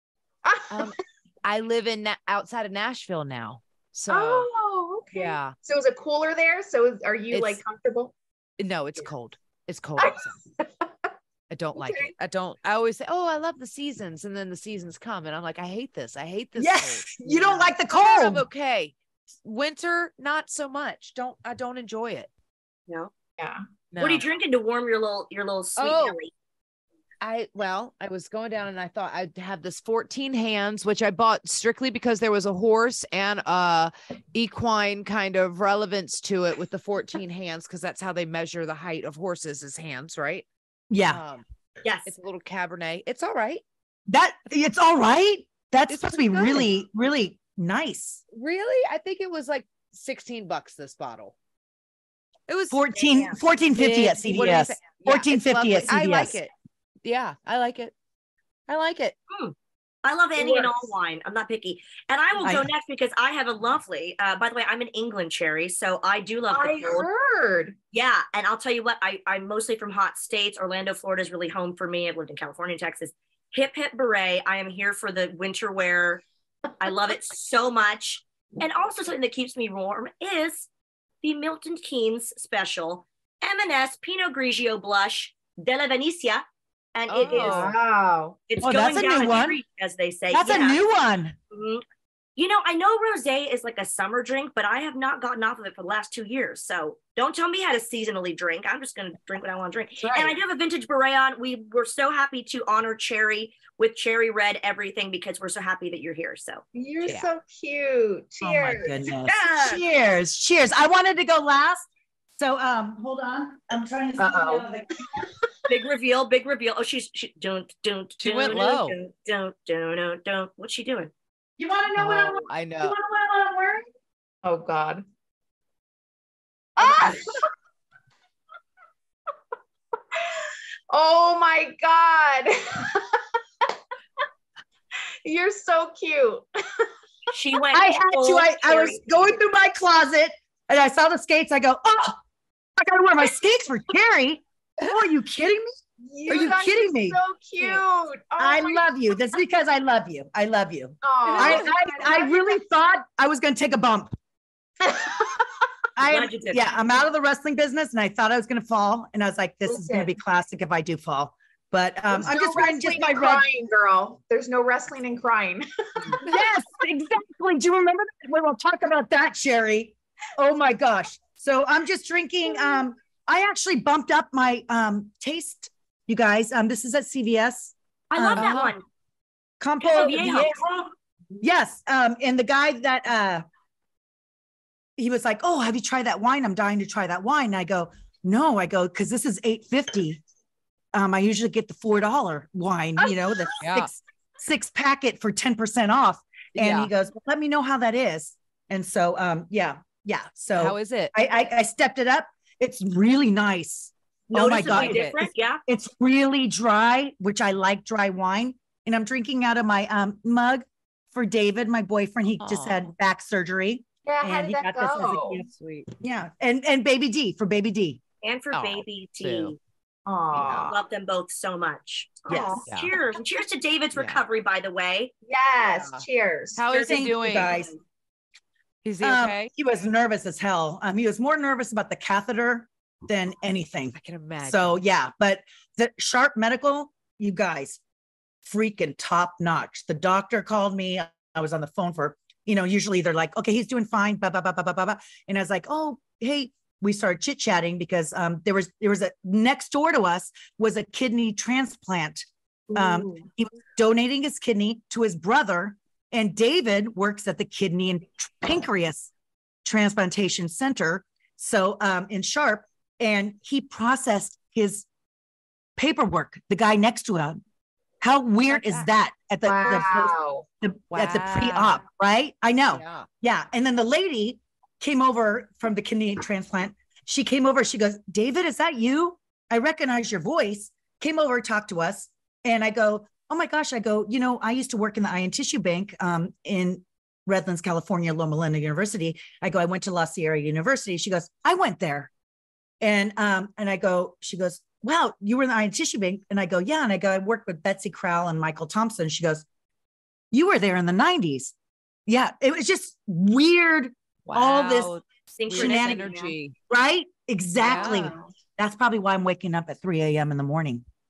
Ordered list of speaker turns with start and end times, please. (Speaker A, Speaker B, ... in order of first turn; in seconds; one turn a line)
Speaker A: 0.5-0.9
Speaker B: 0.7-4.5
Speaker A: 4.1-8.1
Speaker B: 5.1-5.5
Speaker B: 7.3-7.6
Speaker B: 8.6-10.3
Speaker A: 10.0-10.8
Speaker B: 11.5-22.3
Speaker A: 11.8-12.1
Speaker C: 16.6-18.5
Speaker B: 23.9-24.3
Speaker D: 24.0-26.3
Speaker B: 25.8-26.2
Speaker B: 27.2-40.5
Speaker C: 40.9-41.2
Speaker B: 41.1-41.4
Speaker D: 41.8-42.1
Speaker B: 42.1-43.6
Speaker C: 44.1-48.2
Speaker B: 45.9-46.7
Speaker B: 48.3-51.4
Speaker B: 52.5-53.0
Speaker C: 52.7-56.4
Speaker B: 53.7-56.5
Speaker B: 57.0-57.9
Speaker B: 58.7-59.1
Speaker D: 59.3-67.1
Speaker A: 60.4-60.9
Speaker C: 62.4-62.7
Speaker A: 66.5-67.8
Speaker D: 67.9-76.2
Speaker D: 76.8-80.7
Speaker D: 81.2-86.4
Speaker D: 87.0-87.8
Speaker B: 87.1-87.8
Speaker A: 87.3-88.4
Speaker D: 88.5-90.8
Speaker C: 88.6-89.6
Speaker C: 90.3-91.4
Speaker D: 91.5-91.8
Speaker D: 92.4-106.6
Speaker A: 100.0-100.4
Speaker A: 106.7-109.2
Speaker B: 107.0-107.3
Speaker C: 108.4-115.2
Speaker D: 109.3-109.8
Speaker A: 114.2-114.7
Speaker D: 115.7-121.1
Speaker B: 118.2-119.0
Speaker C: 121.6-123.8
Speaker B: 121.9-123.0
Speaker A: 124.4-125.0
Speaker A: 126.8-127.4
Speaker A: 130.9-133.7
Speaker A: 135.2-136.9
Speaker D: 137.3-139.2
Speaker C: 137.7-142.2
Speaker C: 142.8-145.7
Speaker A: 146.0-148.9
Speaker C: 146.3-147.2
Speaker C: 148.4-154.1
Speaker A: 151.0-152.6
Speaker A: 154.8-155.4
Speaker C: 156.0-163.4
Speaker D: 156.1-156.7
Speaker A: 159.7-160.1
Speaker A: 162.1-166.3
Speaker C: 166.2-178.6
Speaker D: 178.1-178.8
Speaker B: 178.4-178.7
Speaker C: 179.6-180.6
Speaker D: 179.8-180.6
Speaker A: 180.3-180.7
Speaker C: 181.4-183.4
Speaker C: 185.0-190.2
Speaker C: 190.9-215.5
Speaker B: 193.6-193.9
Speaker B: 196.6-196.9
Speaker B: 200.6-201.1
Speaker D: 204.3-205.6
Speaker B: 204.7-205.2
Speaker B: 212.4-212.9
Speaker A: 214.1-215.4
Speaker B: 215.5-215.9
Speaker C: 216.0-218.0
Speaker D: 218.2-219.6
Speaker B: 218.5-219.6
Speaker A: 220.1-220.7
Speaker B: 220.4-220.7
Speaker D: 220.4-225.1
Speaker A: 222.3-222.6
Speaker C: 222.3-222.7
Speaker B: 222.7-222.9
Speaker B: 224.0-224.2
Speaker A: 225.3-227.0
Speaker B: 225.7-227.5
Speaker C: 226.7-227.7
Speaker B: 228.8-229.5
Speaker C: 229.0-237.8
Speaker B: 233.9-234.8
Speaker C: 238.4-259.1
Speaker A: 252.7-253.3
Speaker C: 259.6-264.9
Speaker C: 265.8-267.4
Speaker C: 268.0-292.1
Speaker B: 268.5-268.9
Speaker A: 269.5-270.4
Speaker B: 270.9-271.8
Speaker B: 272.7-273.1
Speaker C: 292.8-299.4
Speaker C: 300.3-301.5
Speaker C: 302.1-304.9
Speaker B: 304.3-306.6
Speaker D: 305.4-306.3
Speaker C: 305.5-306.1
Speaker C: 306.7-310.8
Speaker B: 307.6-308.1
Speaker A: 307.7-308.3